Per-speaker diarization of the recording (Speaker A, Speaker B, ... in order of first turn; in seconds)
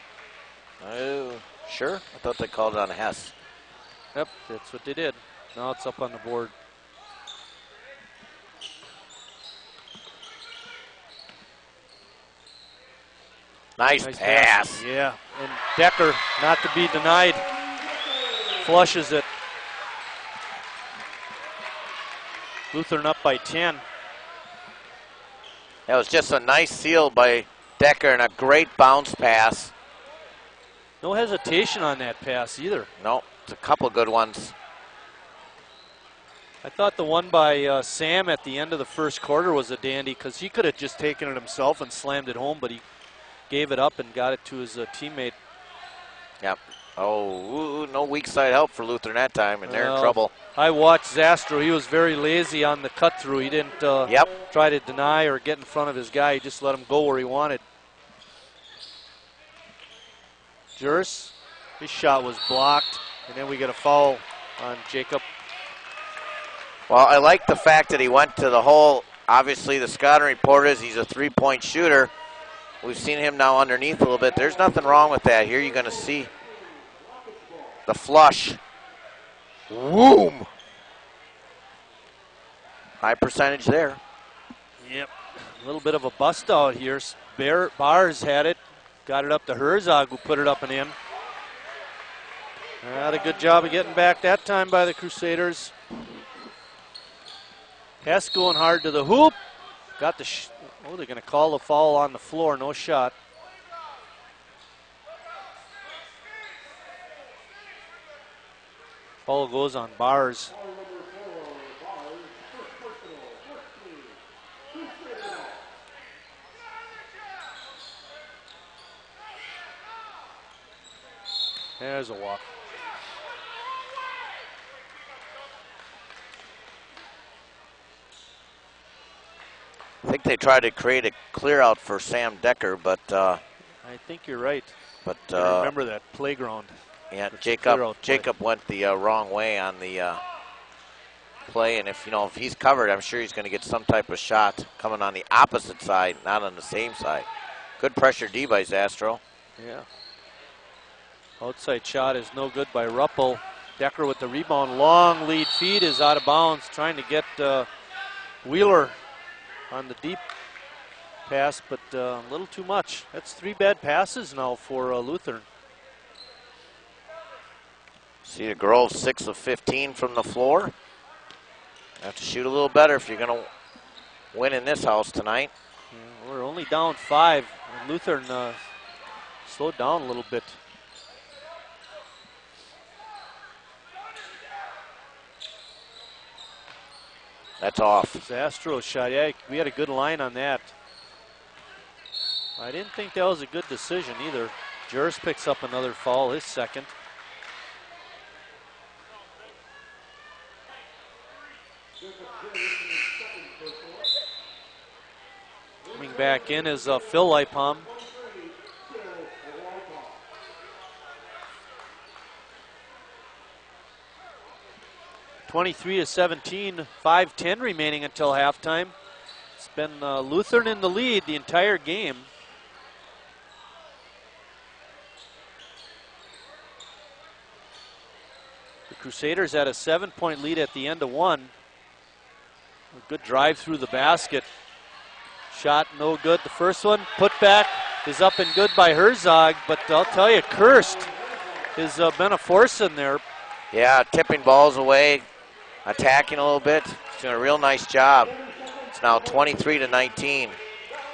Speaker A: 0.8-3.3, 13.8-14.8, 25.9-29.7, 33.0-34.5, 46.4-50.3, 66.9-72.1, 72.8-76.3, 77.9-78.6, 79.7-80.5, 83.0-84.0, 130.0-133.4, 135.0-135.7, 137.1-140.2, 141.5-147.3, 147.8-149.2, 168.2-170.7, 172.0-173.5, 174.3-175.5, 187.6-188.2, 243.7-245.2, 245.8-248.3, 248.9-250.6
Speaker B: 4.2-6.5, 14.0-17.5, 18.6-19.3, 22.7-23.8, 31.0-32.9, 36.6-42.8, 43.5-45.4, 49.6-57.6, 60.8-65.2, 84.8-91.0, 92.8-95.7, 98.0-99.4, 100.0-103.1, 109.3-110.5, 121.8-122.5, 133.8-134.7, 135.3-136.8, 137.3-138.3, 149.6-149.8, 151.4-157.7, 158.4-159.0, 159.7-160.2, 161.3-165.5, 175.9-178.6, 179.5-180.6, 188.2-190.7, 192.6-196.9, 205.9-207.9, 215.5-218.9, 219.6-222.3, 228.9-231.5, 232.9-234.5, 235.5-241.1, 241.8-243.2